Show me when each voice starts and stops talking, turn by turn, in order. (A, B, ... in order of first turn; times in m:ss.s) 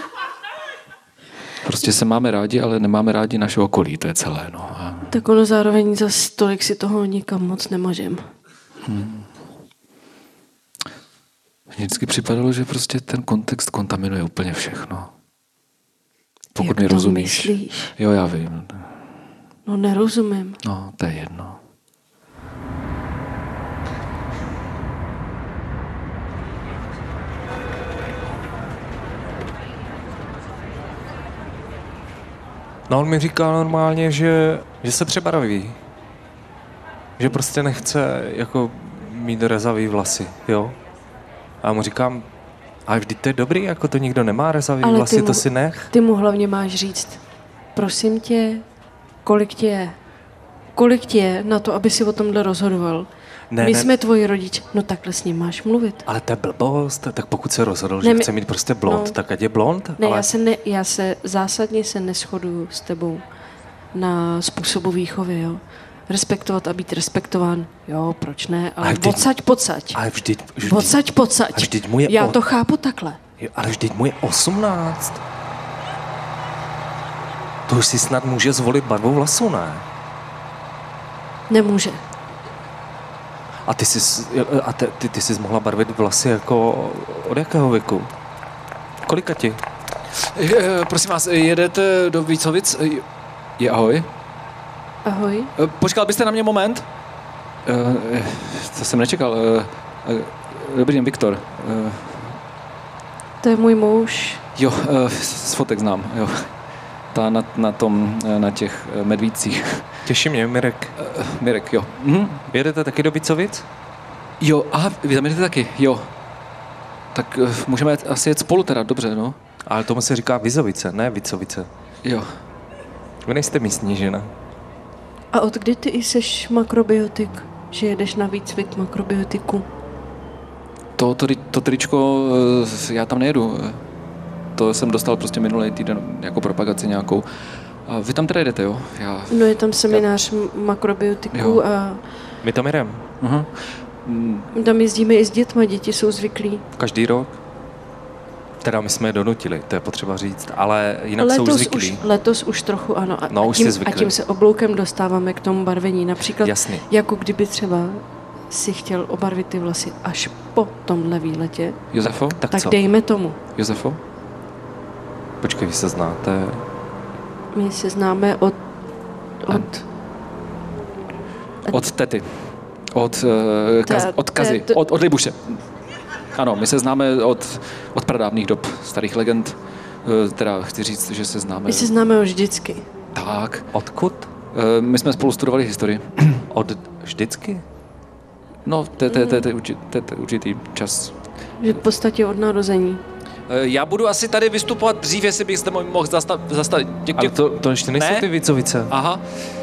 0:01.6-0:05.2 A
0:05.1-0:08.3 B
0:08.8-0:09.3 A
0:11.7-0:15.1 A
0:16.6-0:18.9 A
0:16.6-0:17.9 B
0:19.7-0:20.6 B
0:20.6-0:21.6 A
0:32.9-0:35.8 C
0:37.2-0:40.8 C
0:41.6-0:42.3 C
0:42.9-0:45.9 C
0:44.8-0:47.2 B
0:47.8-0:48.6 B
0:49.2-0:50.0 B
0:50.8-0:53.1 B
0:53.5-0:53.9 C
0:53.6-0:56.0 B
0:56.1-1:00.3 C
0:58.0-0:58.3 B
0:58.9-0:59.2 B
1:00.0-1:03.2 B
1:03.9-1:10.0 B
1:08.8-1:09.3 C
1:09.9-1:11.0 C
1:10.6-1:13.2 B
1:11.5-1:12.4 C
1:13.4-1:15.2 C
1:17.7-1:19.8 C
1:21.5-1:22.0 B
1:23.7-1:28.1 C
1:29.0-1:29.6 C
1:30.2-1:33.0 A
1:33.6-1:34.1 A
1:35.0-1:35.5 B
1:35.6-1:36.9 A
1:37.6-1:42.4 A
1:43.4-1:44.4 B
1:44.6-1:46.5 A
1:47.1-1:50.0 A
1:50.1-1:51.0 C
1:51.0-1:52.4 A
1:52.5-1:53.7 C
1:54.4-1:56.1 A
1:57.1-1:59.4 A
1:59.7-2:01.7 C
2:03.2-2:04.3 C
2:05.3-2:09.7 B
2:11.0-2:13.8 A
2:14.6-2:17.3 A
2:17.9-2:19.5 A
2:19.3-2:22.0 B
2:21.3-2:21.6 A
2:22.4-2:23.1 C
2:23.2-2:24.5 A
2:24.5-2:26.6 B
2:26.8-2:27.4 C
2:28.6-2:32.0 C
2:31.2-2:41.8 B
2:33.3-2:34.1 C
2:36.4-2:36.8 C
2:41.9-2:42.4 A
2:42.4-2:42.8 C
2:42.5-2:43.4 B
2:43.6-2:44.0 A
2:45.4-2:46.6 C
2:47.5-2:48.6 B
2:49.4-2:49.8 B
2:51.7-2:55.6 A
2:53.9-2:54.8 B
2:56.4-3:01.9 A
3:01.7-3:02.9 B
3:03.1-3:03.7 A
3:03.7-3:04.3 C
3:04.5-3:06.4 A
3:06.5-3:07.6 C
3:08.6-3:11.2 A
3:09.1-3:09.4 B
3:11.6-3:13.0 B
3:13.5-3:18.3 A
3:17.2-3:18.9 C
3:18.9-3:19.2 A